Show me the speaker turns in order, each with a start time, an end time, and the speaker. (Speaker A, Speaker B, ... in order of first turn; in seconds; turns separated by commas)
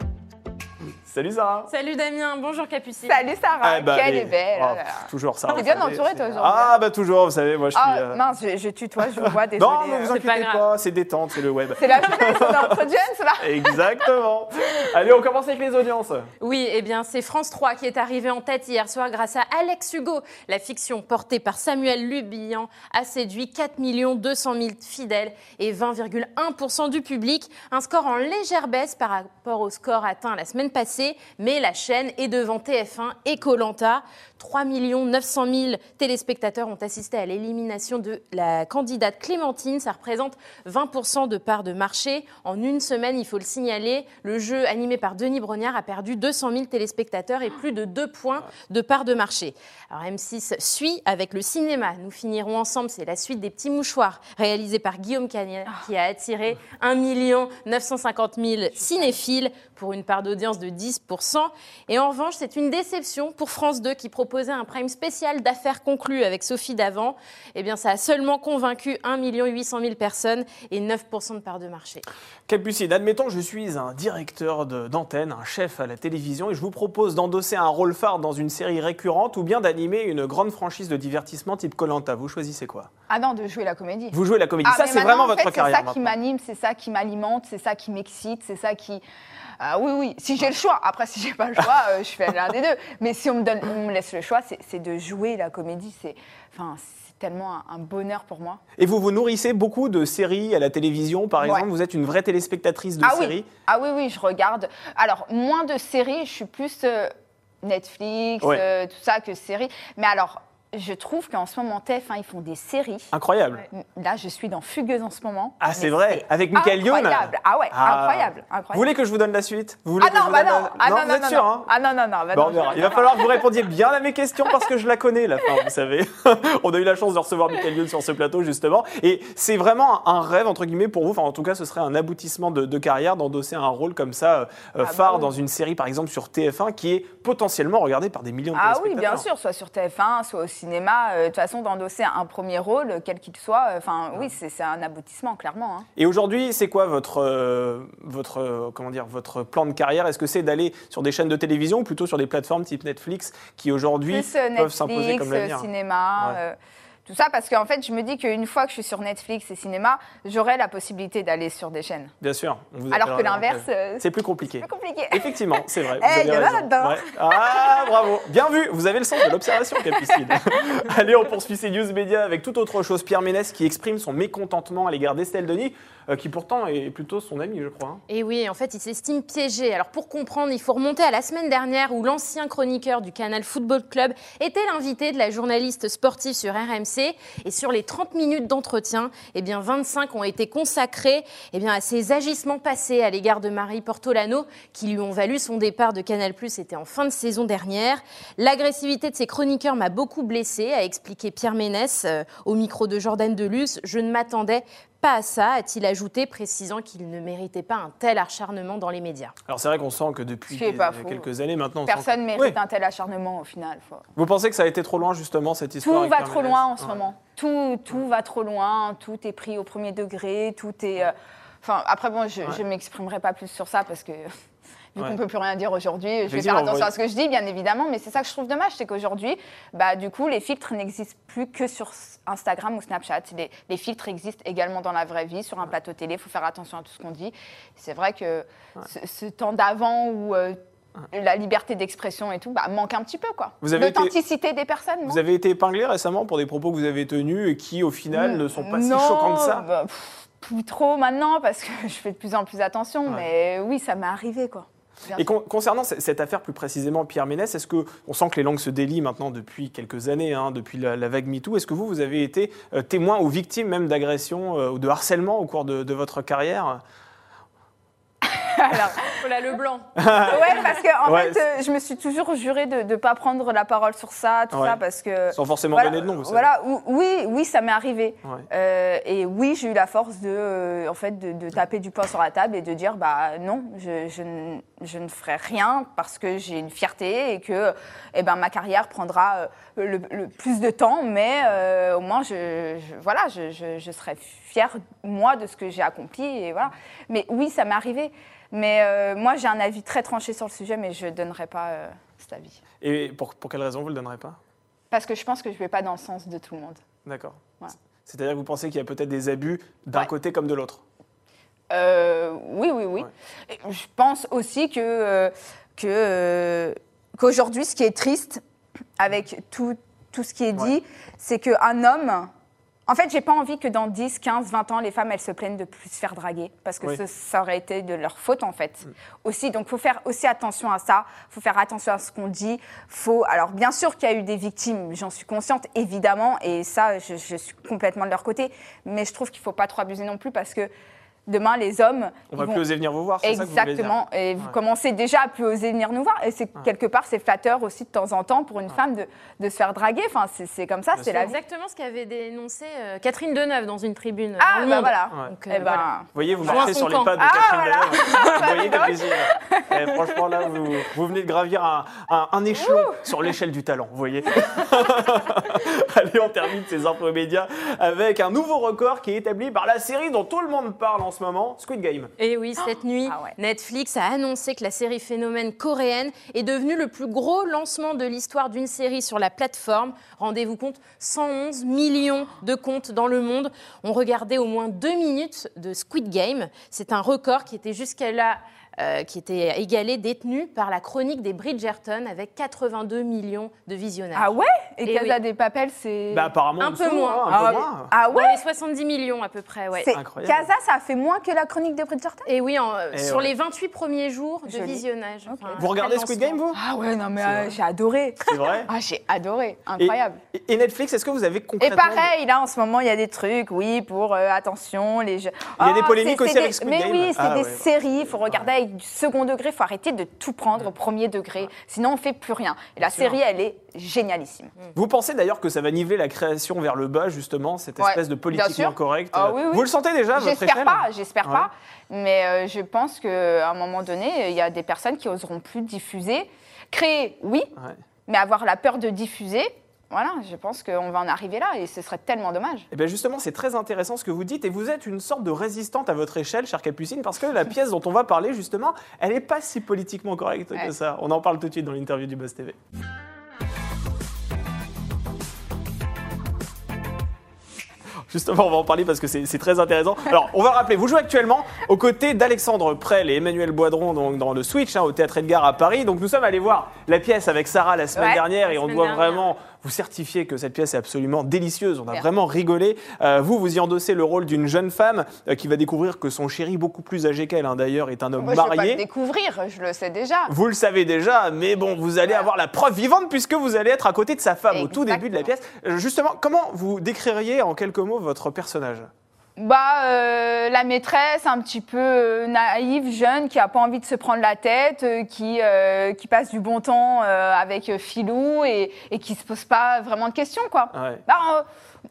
Speaker A: 1.1-1.7, Speaker B: 1.7-3.2, Speaker C: 3.1-6.8, Speaker A: 3.6-8.2, Speaker C: 7.7-10.1, Speaker A: 9.2-12.8, Speaker B: 10.1-10.7, Speaker C: 11.8-14.1, Speaker A: 13.4-16.3, Speaker B: 16.4-72.0, Speaker A: 72.5-82.9, Speaker C: 83.1-89.0, Speaker A: 84.1-86.2, Speaker C: 89.6-98.6, Speaker A: 98.8-103.5, Speaker C: 101.4-101.7, Speaker C: 103.0-113.1, Speaker A: 113.1-113.6, Speaker C: 113.7-118.9, Speaker A: 115.6-121.7, Speaker C: 120.0-123.5, Speaker A: 122.3-139.2, Speaker C: 134.8-135.3, Speaker C: 138.5-145.9, Speaker A: 145.9-156.4, Speaker C: 154.1-162.1, Speaker A: 162.2-178.0, Speaker C: 162.9-164.1, Speaker C: 164.6-167.9, Speaker C: 169.8-170.4, Speaker B: 178.1-209.3, Speaker A: 209.5-212.6, Speaker C: 210.5-211.3, Speaker C: 211.8-214.1, Speaker A: 214.2-216.9, Speaker C: 215.8-224.3, Speaker C: 224.9-245.2, Speaker A: 226.3-226.9, Speaker A: 243.6-244.1, Speaker A: 245.1-249.7, Speaker C: 248.1-255.3, Speaker A: 255.1-266.8, Speaker C: 268.2-269.2, Speaker B: 269.0-270.6, Speaker A: 269.9-271.4, Speaker C: 270.1-302.6, Speaker A: 274.5-274.8, Speaker A: 275.3-276.5, Speaker A: 302.8-304.4, Speaker C: 304.9-306.8, Speaker A: 307.0-307.4, Speaker A: 308.1-310.8, Speaker C: 311.7-318.4, Speaker C: 319.0-322.3, Speaker C: 322.9-340.7, Speaker C: 341.3-342.6, Speaker A: 342.3-343.9, Speaker C: 343.2-351.4, Speaker A: 350.9-351.2, Speaker B: 351.1-355.9, Speaker C: 354.4-360.5, Speaker A: 356.1-372.1, Speaker B: 356.4-357.2, Speaker C: 362.6-363.1, Speaker C: 364.4-364.7, Speaker B: 372.2-394.3, Speaker C: 373.1-373.4, Speaker C: 394.1-396.3, Speaker B: 394.9-395.1, Speaker A: 396.1-397.9, Speaker B: 396.6-399.9, Speaker C: 397.3-398.4, Speaker C: 399.8-402.3, Speaker A: 399.9-400.5, Speaker B: 402.2-406.4, Speaker A: 402.9-403.3, Speaker C: 404.5-405.6, Speaker A: 405.6-406.6, Speaker C: 406.5-410.2, Speaker A: 407.2-407.5, Speaker A: 408.3-408.7, Speaker A: 409.8-412.1, Speaker C: 411.6-424.5, Speaker A: 415.6-418.5, Speaker A: 422.8-423.2, Speaker A: 424.7-431.5, Speaker C: 427.8-437.5, Speaker C: 438.1-442.7, Speaker A: 442.7-452.6, Speaker A: 458.1-478.8, Speaker C: 467.9-468.2, Speaker B: 468.4-469.3, Speaker C: 478.2-480.3, Speaker A: 480.3-488.9, Speaker C: 484.5-485.3, Speaker C: 489.4-501.4, Speaker A: 500.7-501.0